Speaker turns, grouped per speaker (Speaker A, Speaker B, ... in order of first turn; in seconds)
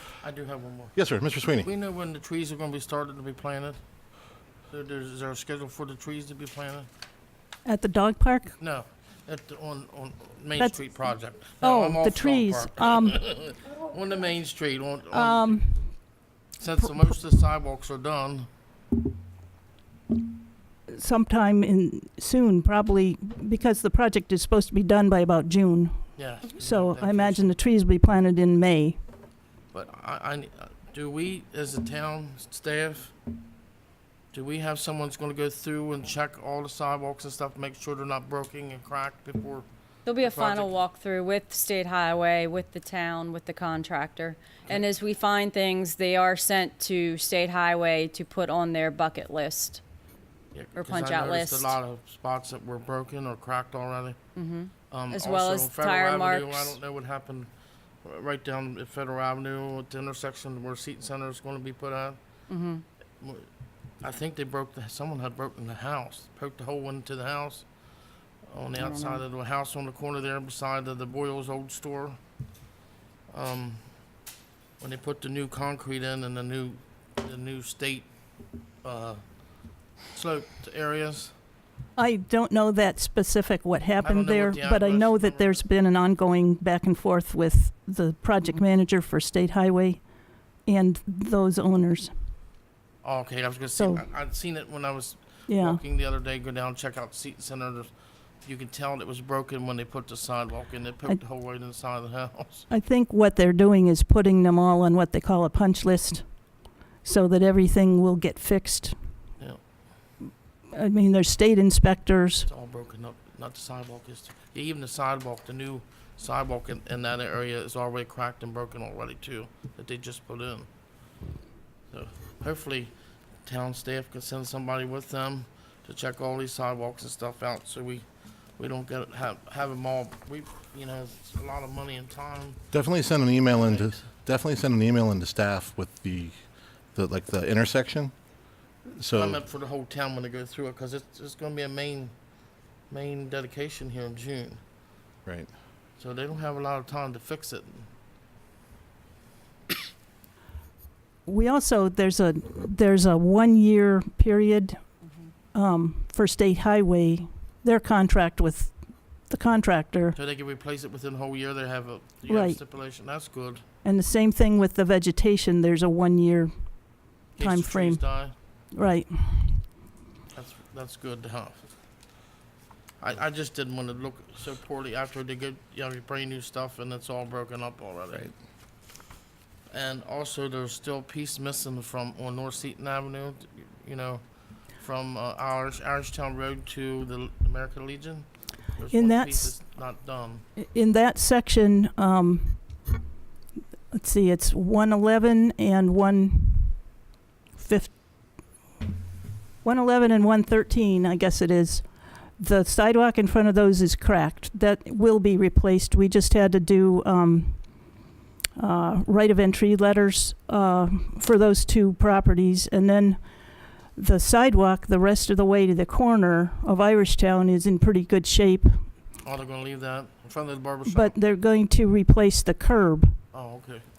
Speaker A: 0.2-1.0, 1.6-3.8, 4.7-6.9, 8.6-15.6, 16.6-18.5, 26.2-27.5, 29.7-33.1, 34.3-39.7, 40.2-40.7, 50.5-54.2, 54.9-57.5, 58.0-62.2, 63.2-63.5, 64.0-67.7, 68.5-72.2, 73.3-74.0, 74.8-78.1, 78.8-81.3, 84.0-85.7, 93.0-97.9, 98.4-102.7, 112.5-120.7, 121.9-122.9, 123.5-128.1, 128.6-132.7, 133.5-134.0, 139.1-142.1, 142.9-144.6, 146.0-147.9, 160.2-163.6, 167.4-168.3, 170.3-171.7, 173.0-178.3, 179.7-190.4, 219.2-221.2, 223.3-223.9
Speaker B: 0.9-1.7, 132.7-136.4, 136.9-138.1, 139.0-139.4, 145.2-145.5
Speaker C: 7.7-8.6, 11.6-13.2, 15.1-15.8, 20.9-29.0, 82.0-90.0, 90.7-92.1, 93.8-94.0, 95.5-95.8, 102.7-109.0, 110.7-112.5, 151.3-154.8, 155.5-160.2, 162.3-162.6, 163.8-168.1, 168.7-169.7, 188.9-189.6, 190.6-192.6, 193.9-196.9, 197.5-198.0, 199.6-201.9, 202.4-207.6, 208.6-213.2, 213.9-218.9, 220.9-223.2
Speaker D: 40.0-49.8, 50.8-51.8, 54.4-56.8, 62.5-62.8, 68.8-69.2